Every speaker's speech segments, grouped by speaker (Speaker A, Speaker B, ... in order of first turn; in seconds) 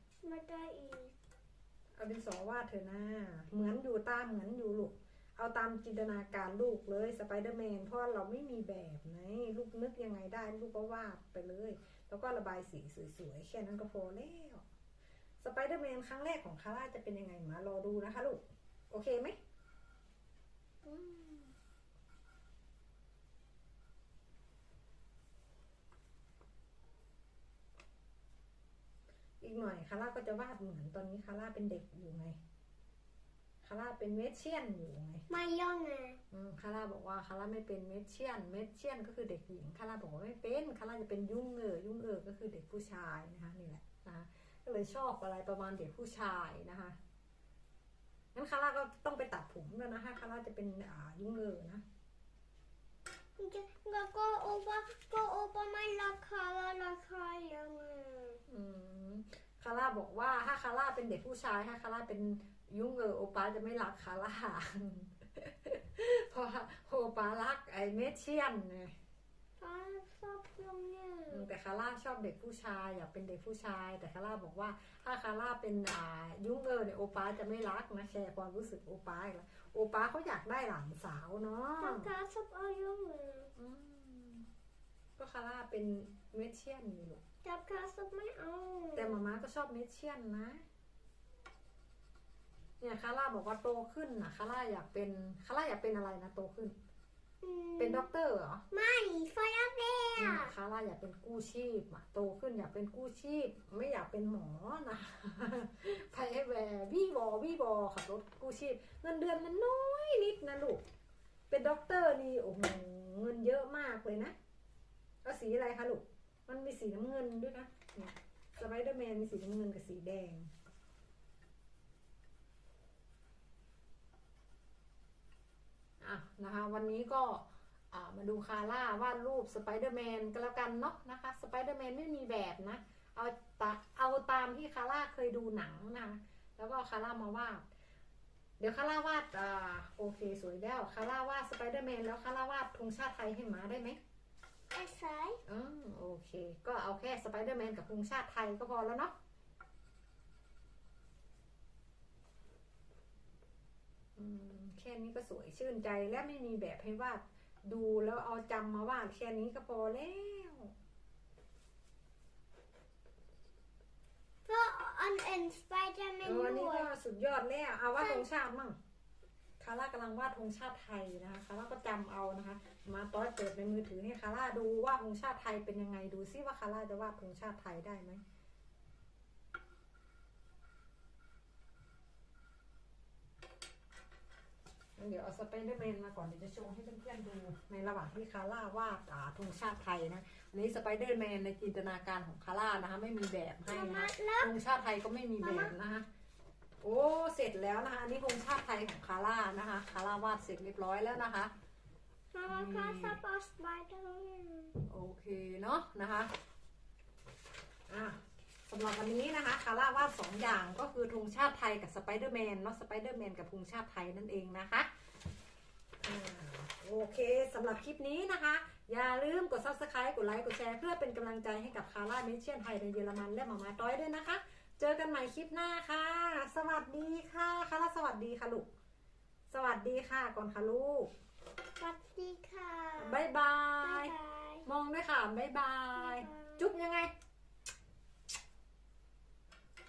Speaker A: 0.2-1.1, 35.3-36.2, 53.4-58.4, 69.6-71.5, 81.8-83.5, 87.4-89.2, 97.4-98.1, 98.7-100.5, 144.7-145.4, 164.4-166.9, 168.0-168.2, 193.7-194.5, 195.4-195.7, 202.3-204.8, 231.8-233.2, 233.8-234.6, 235.9-236.8
Speaker B: 2.0-14.6, 15.4-19.4, 20.8-21.5, 29.4-32.4, 33.6-35.2, 36.3-47.0, 48.3-51.8, 58.5-68.9, 71.3-82.1, 83.5-84.5, 85.2-87.2, 89.0-90.6, 92.8-96.7, 97.8-98.6, 100.2-110.8, 111.5-114.3, 115.2-120.5, 126.0-137.6, 138.6-144.0, 145.4-149.1, 154.2-160.7, 166.2-168.8, 169.6-178.2, 185.0-196.1, 196.8-201.5, 202.5-203.2, 204.8-206.3, 207.9-208.2, 208.7-214.9, 216.0-228.7, 229.5-231.1, 233.0-234.1, 234.7-237.1